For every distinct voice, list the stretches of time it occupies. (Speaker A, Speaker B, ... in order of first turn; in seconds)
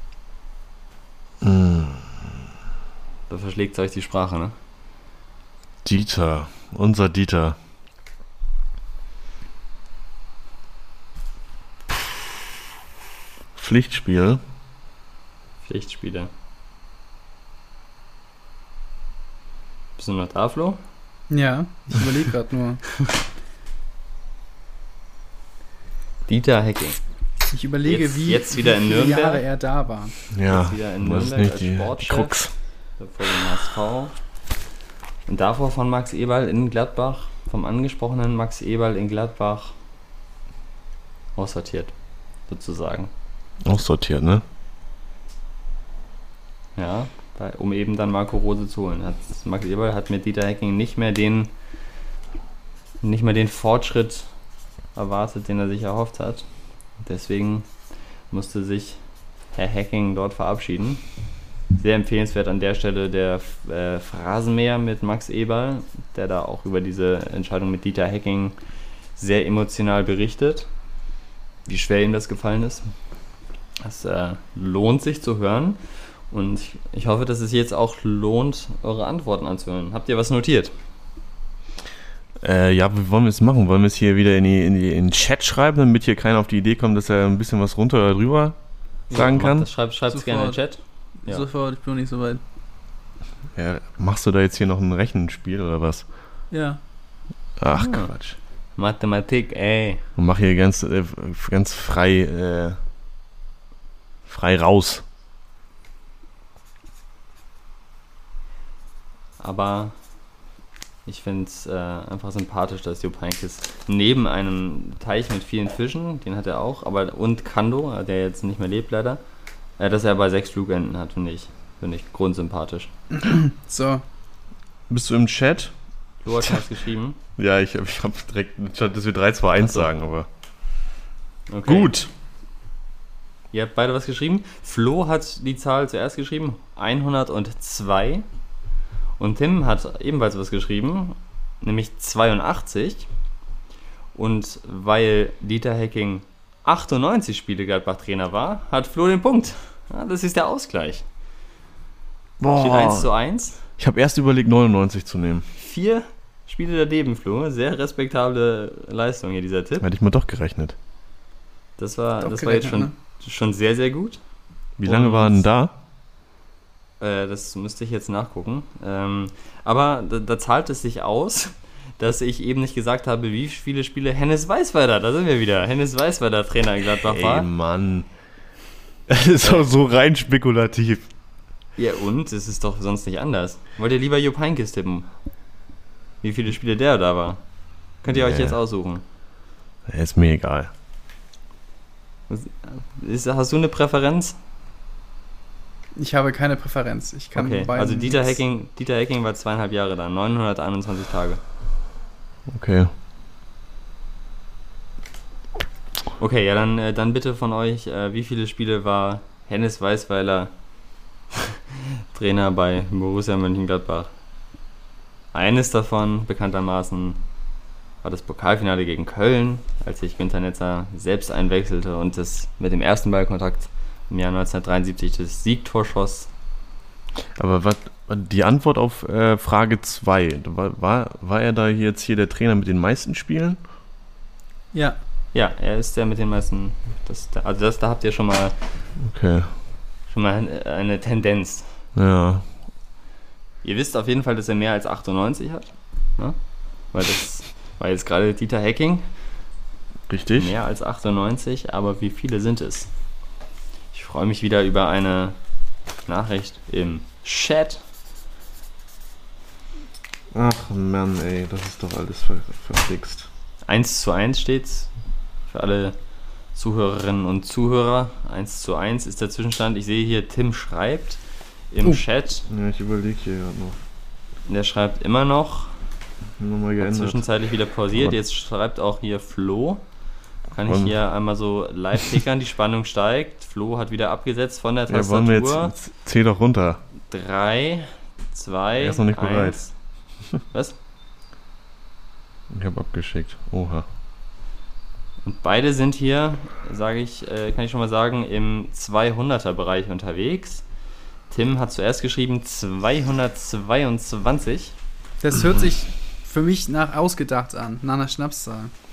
Speaker A: 1.4-2.3, 5.8-7.6, 13.6-14.4, 30.3-32.5, 43.6-44.4, 82.4-88.6, 89.1-89.7, 93.5-96.1, 97.6-98.4, 100.2-102.8, 104.3-105.0, 124.9-125.8, 127.4-130.3, 131.7-132.1, 152.4-153.1, 153.8-155.5, 159.8-160.8, 164.8-165.7, 177.1-178.1, 179.1-181.1, 188.1-188.6, 189.9-190.7, 202.5-202.9, 227.4-233.6, 239.0-239.5, 241.9-242.5, 250.1-250.5, 260.3-263.3, 272.5-273.8, 276.4-277.2, 280.7-280.9, 284.9-286.8, 288.8-289.6, 292.5-293.9
Speaker B: 3.3-4.5, 15.7-16.3, 20.0-20.8, 26.3-27.0, 27.9-29.4, 30.5-32.4, 33.0-34.1, 35.3-39.8, 41.4-41.9, 42.5-43.1, 46.8-51.5, 53.0-54.3, 55.0-56.5, 57.0-57.7, 58.3-59.0, 59.5-61.0, 61.8-68.6, 69.2-70.7, 71.7-72.9, 73.8-80.7, 89.1-91.5, 97.8-98.1, 98.8-100.0, 109.4-109.9, 111.1-119.2, 119.8-122.9, 126.2-127.2, 129.6-129.9, 131.5-131.9, 133.5-138.3, 139.2-143.1, 144.2-151.1, 152.6-153.6, 155.6-159.8, 161.8-164.2, 164.8-165.5, 167.0-177.5, 181.8-185.1, 186.2-187.4, 188.0-189.0, 192.3-194.4, 197.3-201.4, 206.2-210.5, 212.1-214.1, 215.3-217.2, 218.0-226.3, 235.3-238.6, 240.1-241.7, 243.6-246.4, 246.9-249.1, 250.4-252.9, 253.9-255.4, 256.1-257.8, 263.7-264.9, 265.5-266.0, 266.6-272.5, 274.5-275.8, 276.8-279.8, 280.5-285.8, 287.1-289.8, 290.4-290.8, 295.2-300.6, 301.3-304.8
Speaker C: 21.3-22.9, 27.5-30.2, 90.1-90.6, 91.2-92.4, 96.5-96.8, 123.1-124.0, 162.2-162.9, 196.0-198.4, 234.7-235.0, 305.2-308.7